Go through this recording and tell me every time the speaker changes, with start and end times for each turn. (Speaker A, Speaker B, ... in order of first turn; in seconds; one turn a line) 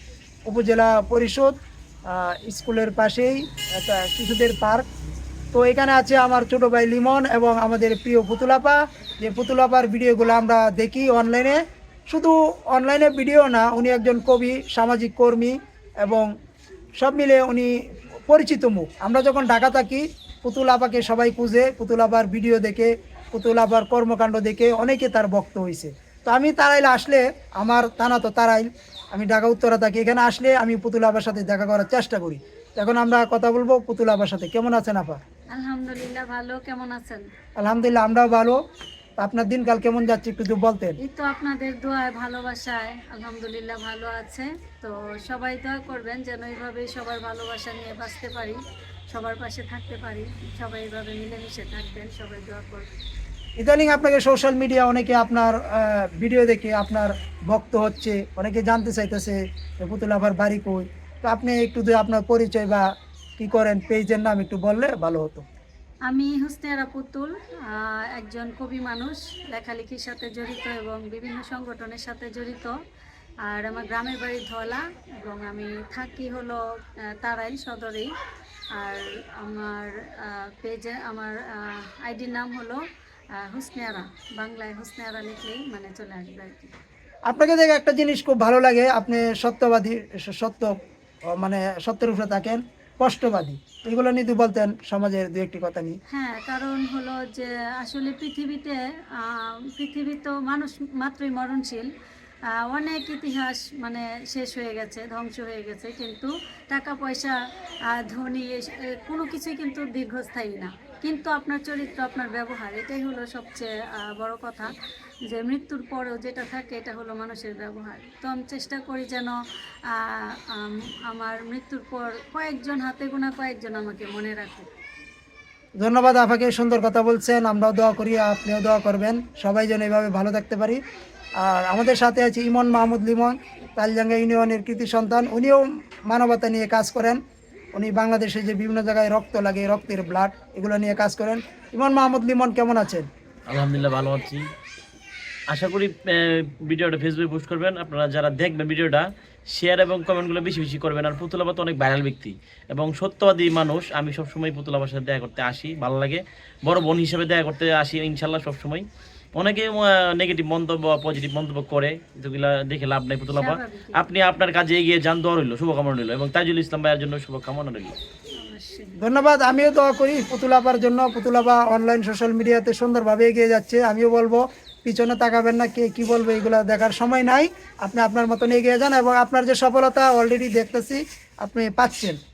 Speaker A: 0.5-1.5
Speaker A: 2.1-4.8
Speaker A: 5.5-16.3
Speaker A: 17.0-17.7
Speaker A: 18.3-35.2
Speaker B: 35.5-37.2
Speaker A: 37.6-38.6
Speaker A: 39.2-41.0
Speaker B: 41.0-48.6
Speaker B: 49.1-52.9
Speaker A: 53.6-62.9
Speaker A: 63.4-65.5
Speaker B: 66.1-72.7
Speaker B: 73.5-76.6
Speaker B: 77.2-78.1
Speaker B: 78.8-82.8
Speaker B: 83.4-86.7
Speaker A: 87.3-90.8
Speaker A: 91.3-96.0
Speaker B: 96.1-101.9
Speaker B: 102.5-107.3
Speaker B: 107.9-114.7
Speaker B: 115.3-119.3
Speaker B: 119.9-124.7
Speaker A: 125.8-130.8
Speaker A: 131.4-137.2
Speaker A: 137.7-143.1
Speaker C: 143.5-144.5
Speaker C: 145.5-168.0
Speaker B: 163.3-164.1
Speaker B: 168.4-169.0
Speaker A: 169.0-182.2